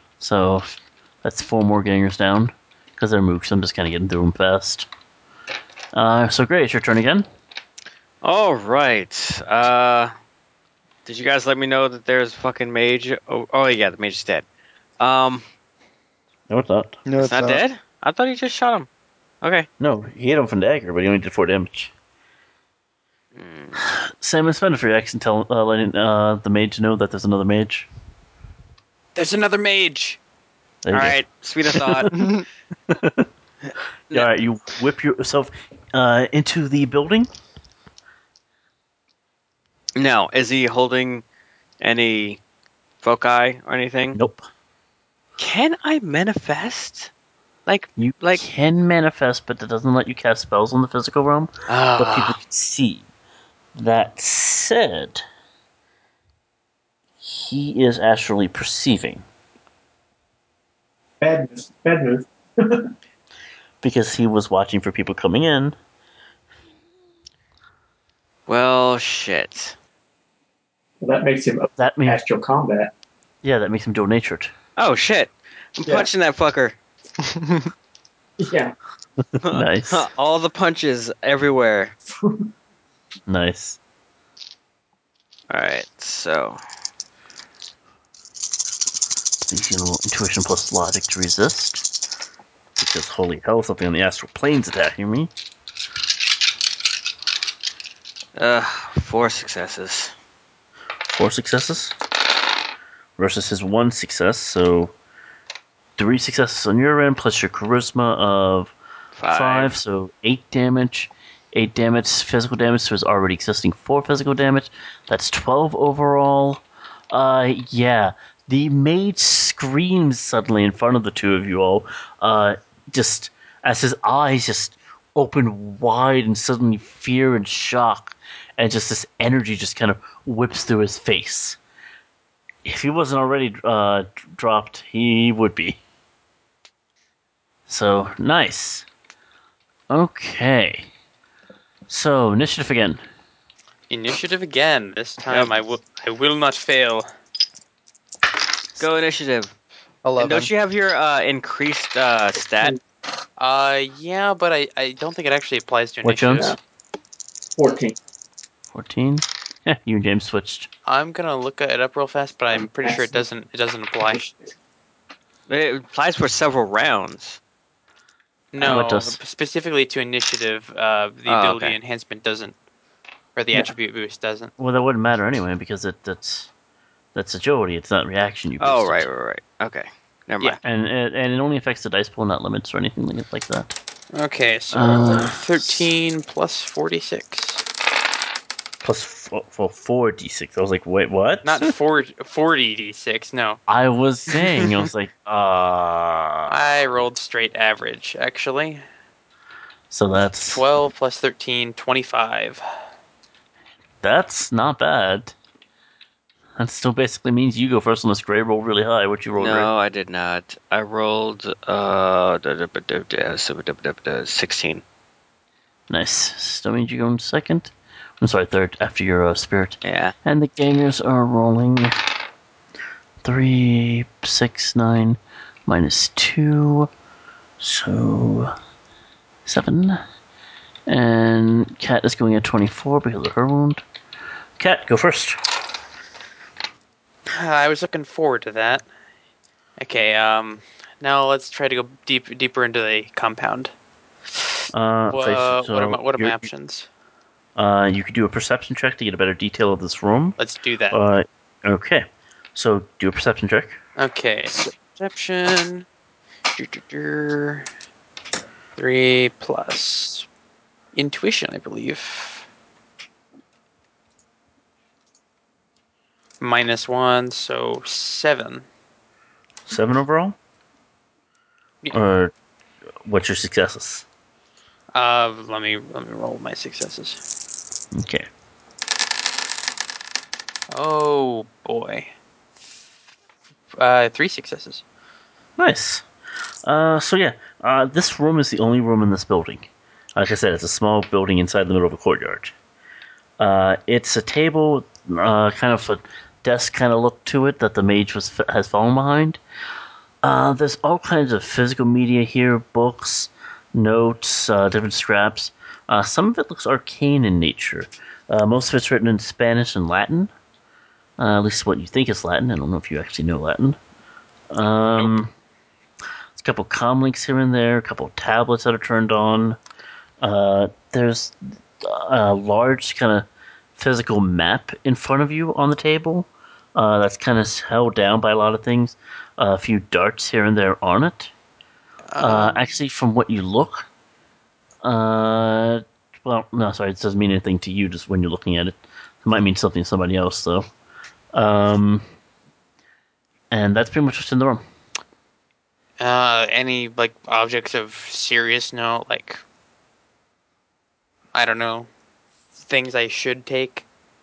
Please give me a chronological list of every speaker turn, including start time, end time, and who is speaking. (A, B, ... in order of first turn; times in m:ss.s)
0:00.2-0:04.9 A
0:05.9-0:07.3 A
0:08.2-0:10.1 B
0:11.0-0:14.4 B
0:15.0-0:15.4 B
0:16.5-0:17.0 A
0:17.0-0:17.6 C
0:17.2-0:18.9 B
0:19.4-0:19.7 B
0:19.8-0:21.9 A
0:23.3-0:23.8 B
0:23.7-0:27.9 A
0:29.1-0:30.2 D
0:30.8-0:32.3 A
0:30.9-0:32.1 B
0:32.1-0:32.4 C
0:32.9-0:33.3 A
0:34.1-0:37.3 A
0:40.0-0:41.2 B
0:41.8-0:42.4 B
0:43.0-0:44.2 B
0:44.1-0:44.4 A
0:45.4-0:47.1 B
0:47.6-0:48.4 B
0:48.0-0:53.0 A
0:51.7-0:52.4 B
0:53.7-0:55.2 A
0:57.2-0:59.2 A
1:01.2-1:02.9 E
1:03.8-1:05.8 A
1:08.5-1:09.7 B
1:11.0-1:12.9 E
1:11.8-1:12.2 A
1:13.4-1:14.5 A
1:14.8-1:16.8 B
1:17.2-1:17.7 C
1:18.4-1:18.7 E
1:19.4-1:20.0 A
1:19.4-1:21.9 B
1:22.1-1:22.4 E
1:23.3-1:23.8 A
1:25.5-1:26.6 B
1:29.4-1:31.8 A
1:32.8-1:35.3 A
1:38.4-1:40.1 B
1:41.1-1:41.9 A
1:43.2-1:44.9 A
1:46.0-1:48.7 A
1:49.2-1:49.7 B
1:49.3-2:11.6 A
2:12.6-2:15.8 A
2:17.7-2:18.8 A
2:19.9-2:20.9 A
2:21.9-2:23.0 A
2:23.9-2:27.1 D
2:25.3-2:25.5 B
2:28.8-2:29.5 B
2:30.0-2:30.5 C
2:30.2-2:32.8 B
2:33.4-2:36.5 D
2:36.0-2:36.6 A
2:37.6-2:38.0 E
2:38.7-2:40.7 A
2:40.8-2:44.2 D
2:42.5-2:43.2 E
2:44.0-2:44.5 E
2:45.5-2:47.4 B
2:48.5-2:52.5 D
2:48.6-2:49.2 A
2:51.3-2:51.8 B
2:53.4-2:54.5 D
2:54.6-2:56.5 A
2:57.1-2:59.1 A
2:58.6-3:00.6 B
3:00.6-3:03.8 A
3:04.1-3:07.6 D
3:04.7-3:05.9 A
3:08.8-3:11.7 A
3:11.4-3:13.6 D
3:13.7-3:16.5 A
3:14.3-3:14.6 D
3:16.5-3:18.8 D
3:19.9-3:20.6 A
3:20.5-3:22.6 D
3:24.0-3:25.3 A
3:26.6-3:29.7 A
3:29.4-3:34.8 B
3:35.9-3:41.9 A
3:39.8-3:40.1 B
3:43.2-3:46.9 A
3:47.6-3:48.5 A
3:49.4-3:50.0 A
3:50.9-3:53.8 A
3:54.6-3:55.4 A
3:57.3-3:58.8 D
3:59.8-4:03.7 D
4:04.7-4:06.5 A
4:05.1-4:06.9 D
4:07.6-4:10.4 A
4:10.4-4:11.0 D
4:10.9-4:13.8 A
4:14.0-4:15.8 D
4:16.5-4:17.6 D
4:18.8-4:20.2 D
4:20.9-4:22.4 D
4:26.4-4:28.6 D
4:29.7-4:30.4 A
4:31.9-4:32.3 A
4:33.0-4:34.0 A
4:34.9-4:37.2 D
4:37.9-4:38.3 A
4:40.7-4:42.1 D
4:43.7-4:44.8 D
4:45.6-4:46.0 A
4:46.6-4:52.5 A
4:53.4-4:59.4 A
5:00.2-5:10.3 A
5:11.2-5:13.8 A
5:14.5-5:15.3 A
5:16.4-5:19.6 A
5:20.2-5:31.3 A
5:32.1-5:32.7 D
5:32.2-5:33.9 A
5:34.8-5:40.7 A
5:41.3-5:42.0 A
5:43.5-5:44.6 A
5:46.0-5:49.4 D
5:51.3-5:51.9 D
5:52.6-5:53.8 D